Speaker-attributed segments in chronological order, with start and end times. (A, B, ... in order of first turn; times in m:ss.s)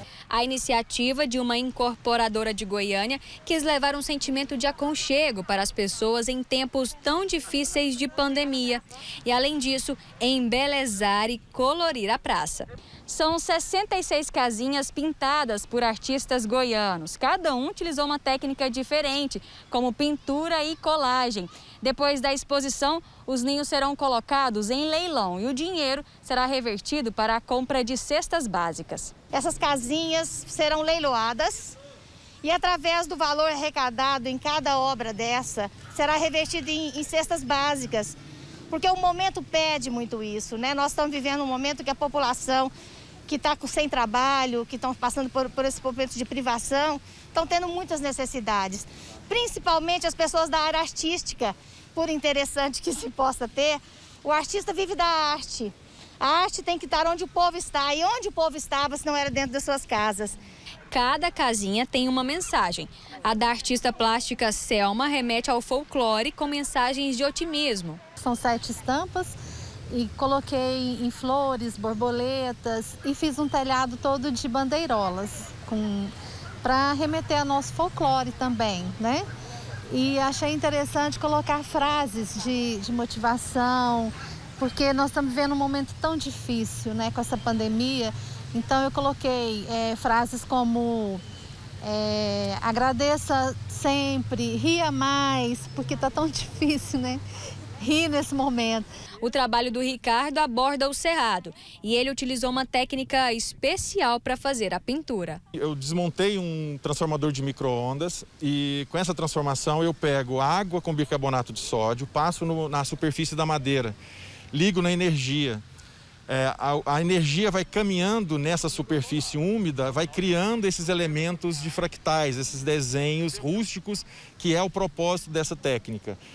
0:00.3-0:29.1 A
0:29.3-0:31.8 B
0:32.4-0:38.2 B
0:38.7-0:42.7 B
0:43.3-1:00.4 B
1:00.9-1:08.0 A
1:08.2-1:09.3 C
1:09.9-1:19.2 C
1:19.9-1:31.2 C
1:31.8-1:37.2 C
1:37.8-1:38.9 C
1:39.2-1:45.4 A
1:45.5-1:54.0 D
1:54.5-1:55.6 D
1:56.3-2:06.2 D